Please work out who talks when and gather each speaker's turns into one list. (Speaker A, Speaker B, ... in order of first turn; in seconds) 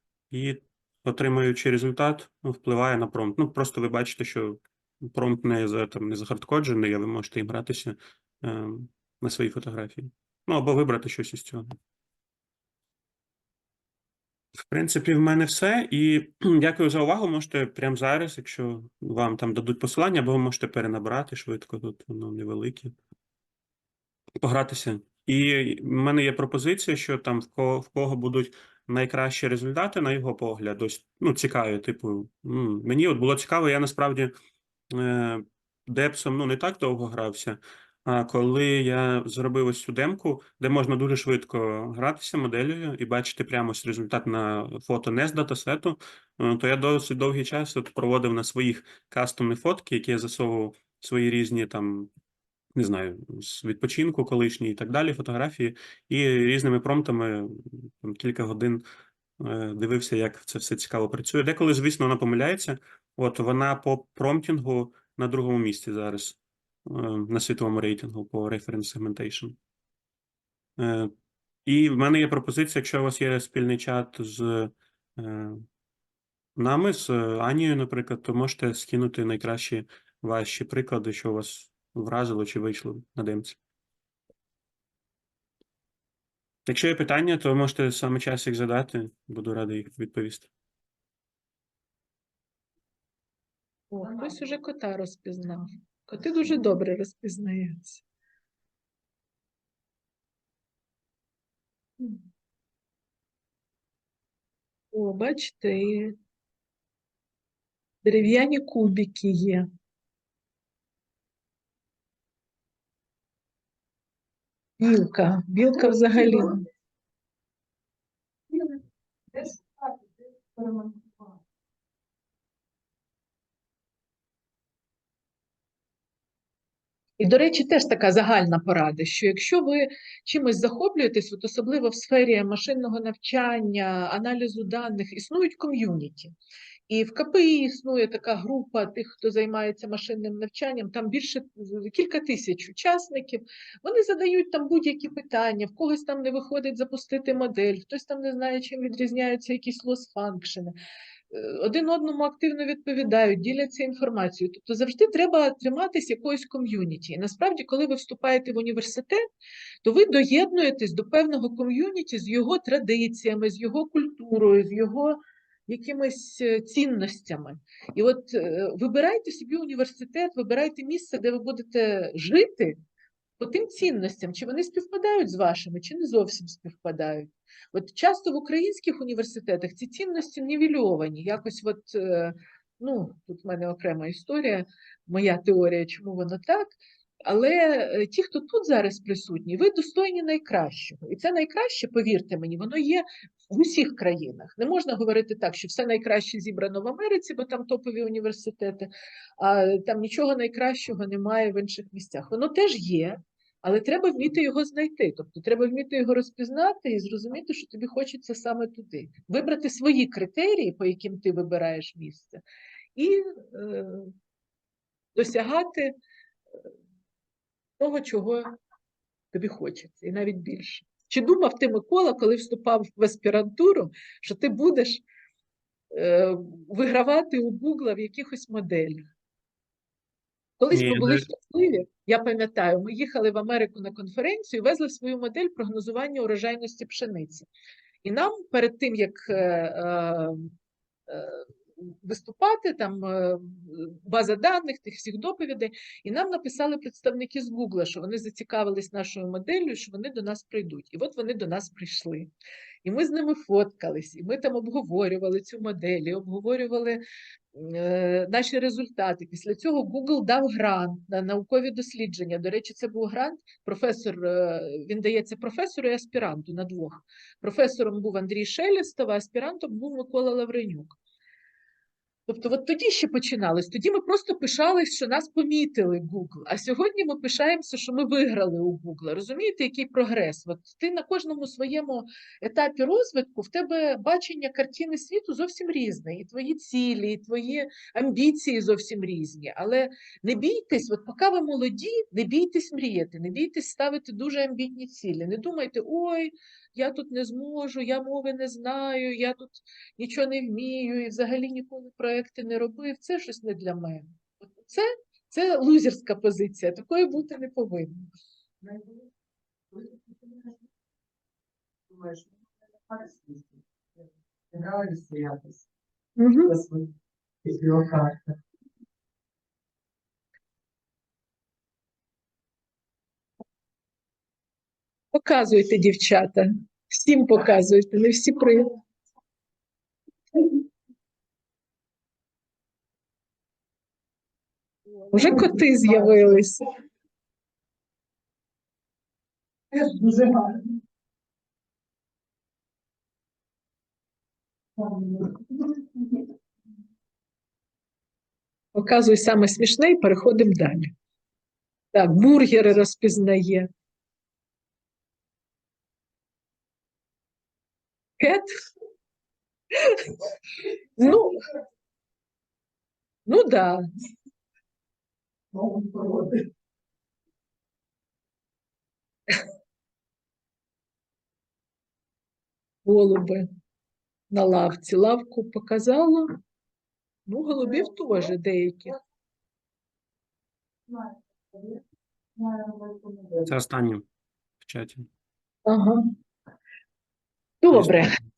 Speaker A: 0.3-11.7, 14.7-22.9, 24.4-34.3, 34.9-52.1, 52.7-58.8, 59.4-69.6, 70.8-71.1, 71.6-75.6, 76.5-83.6, 86.7-90.5, 230.7-231.3, 383.4-384.1, 384.6-385.1, 387.7-388.2
Speaker B: 93.9-98.0, 104.9-106.1, 108.0-109.7, 114.8-116.6, 127.2-136.3, 136.9-150.7, 151.3-159.2, 159.8-172.8, 173.4-212.4, 212.9-214.1, 215.1-215.9, 217.8-218.5, 219.3-225.0, 225.9-229.1, 230.6-237.5, 238.0-240.5, 241.1-252.3, 252.8-257.0, 257.5-270.9, 272.3-308.1, 316.2-316.5, 325.1-328.7, 335.1-336.6, 348.7-350.9, 351.9-353.7, 358.2-358.5, 361.0-361.4, 363.2-363.8, 372.8-373.5, 374.3-376.2, 377.3-378.9, 385.6-386.1, 387.6-388.1
Speaker C: 119.3-121.3, 308.6-308.9, 309.7-310.5, 311.9-315.7, 316.5-316.9, 317.4-318.3, 339.7-340.7, 365.6-366.4, 380.9-381.8, 382.4-383.5